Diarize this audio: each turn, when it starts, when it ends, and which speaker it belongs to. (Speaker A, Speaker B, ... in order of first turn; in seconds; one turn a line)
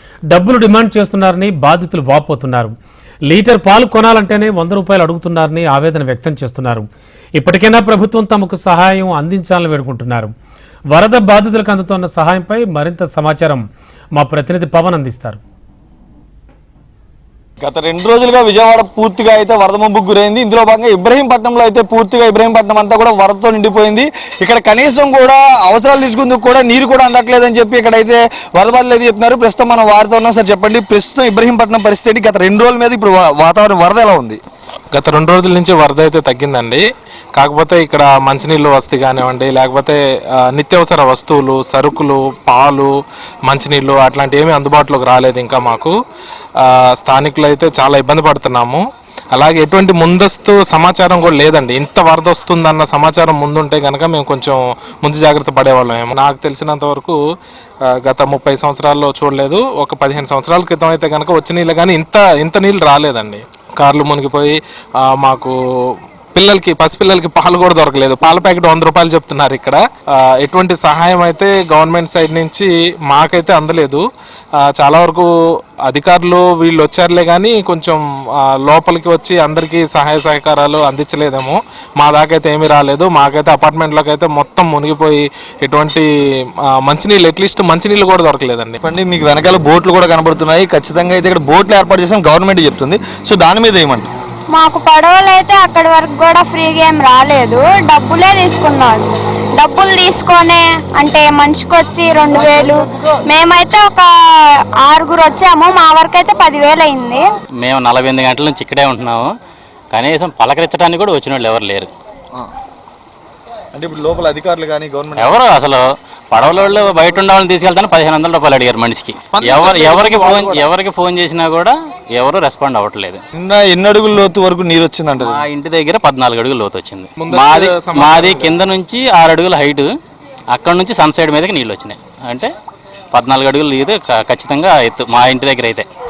Speaker A: 0.3-2.7
Speaker A: 3.3-6.9
Speaker A: 7.4-10.3
Speaker A: 10.9-13.6
Speaker A: 14.1-15.4
Speaker B: 17.6-34.4
Speaker C: 34.9-36.8
Speaker C: 37.3-40.0
Speaker C: 40.5-42.9
Speaker C: 43.5-45.9
Speaker C: 46.6-48.8
Speaker C: 49.3-57.1
Speaker C: 57.9-74.0
Speaker C: 74.6-75.3
Speaker C: 75.8-78.0
Speaker C: 78.6-86.1
Speaker C: 86.8-88.8
Speaker B: 88.8-94.1
Speaker D: 94.5-104.1
Speaker D: 104.8-107.2
Speaker E: 107.6-109.3
Speaker E: 109.9-111.9
Speaker B: 113.7-115.4
Speaker E: 115.2-123.2
Speaker C: 119.5-120.1
Speaker B: 119.8-120.7
Speaker B: 123.3-125.4
Speaker E: 125.2-129.9
Speaker C: 127.2-128.6
Speaker E: 130.5-132.5
Speaker E: 133.1-135.9